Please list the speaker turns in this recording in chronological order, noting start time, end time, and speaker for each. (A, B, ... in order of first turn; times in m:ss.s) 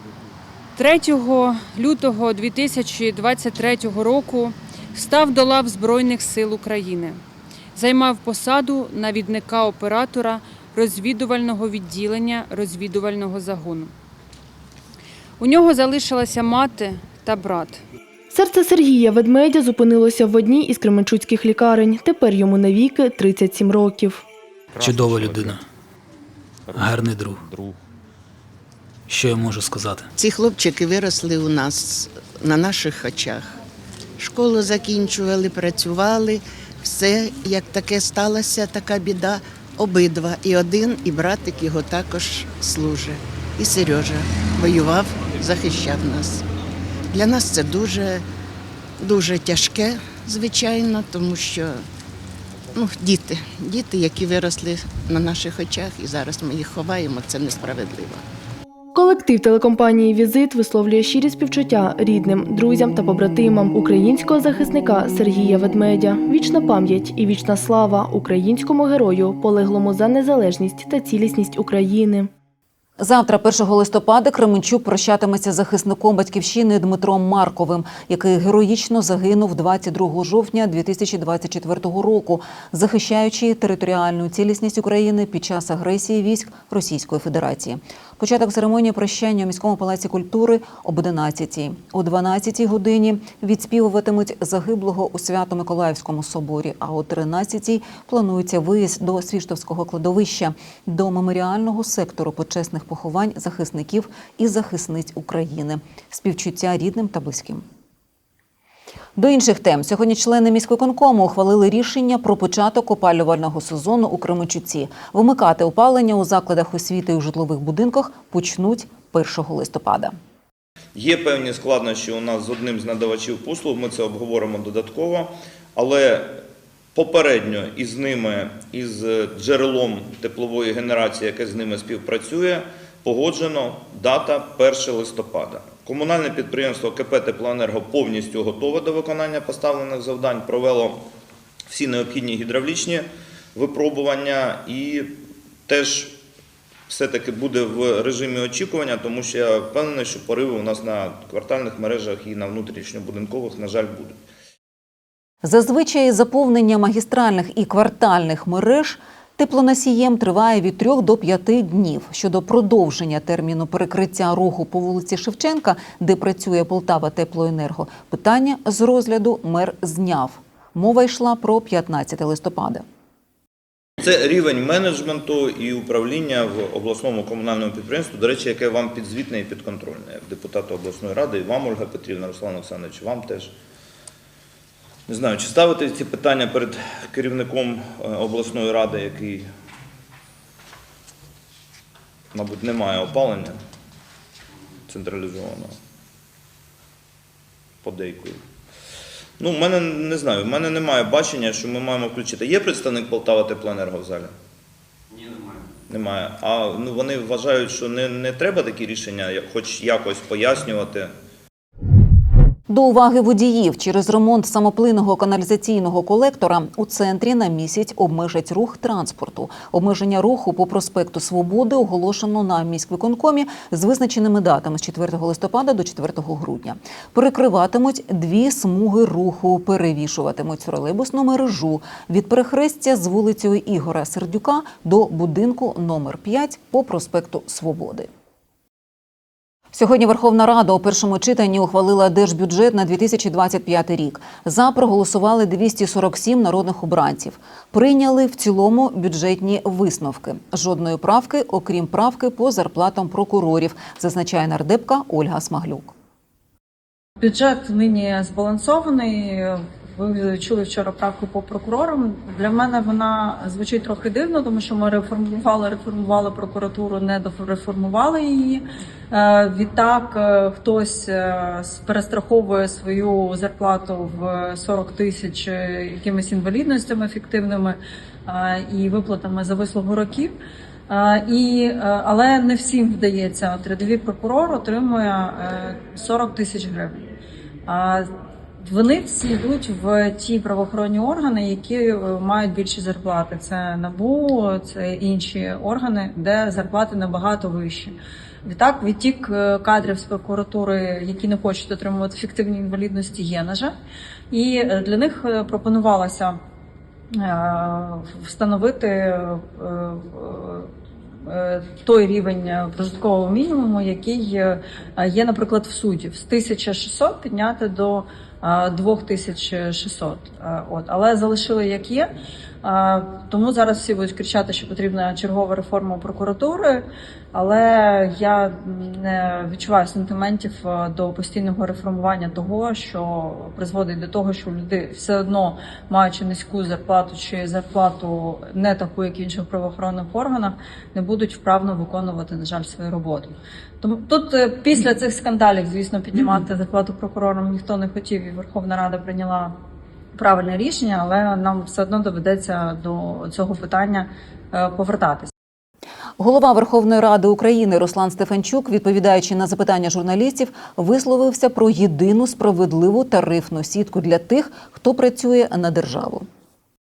0:00.8-0:07.2 A
0:07.8-0:13.9 A
0:15.4-0:17.8 A
0:18.3-0:24.2 B
0:24.8-0:25.6 C
0:24.8-0:25.6 D
0:26.7-0:27.4 D
0:27.4-0:27.8 C
0:29.1-0:30.1 D
0:30.2-0:33.6 E
0:34.2-0:46.4 E
0:47.1-0:48.2 E
0:49.0-0:51.9 E
0:52.8-0:58.2 E
0:59.0-1:12.3 B
1:13.0-1:47.6 F
1:49.2-2:00.1 F
2:01.0-2:06.4 C
2:07.0-2:21.1 C
2:21.7-2:26.2 C
2:26.9-2:34.2 C
2:35.4-2:52.8 F
2:54.0-3:03.5 C
3:05.1-3:09.5 C
3:12.3-3:13.6 C
3:14.9-3:15.7 C
3:17.8-3:18.4 C
3:19.4-3:24.3 C
3:25.9-3:31.1 C
3:32.7-3:58.1 F
3:59.7-4:15.9 F
4:17.2-4:40.4 G
4:40.9-4:47.1 G
4:47.7-4:48.1 G
4:48.6-5:03.8 G
5:04.3-5:06.4 G
5:07.1-5:10.7 G
5:11.2-5:22.1 G
5:22.6-5:49.6 G
5:50.2-5:55.3 G
5:56.2-6:06.3 F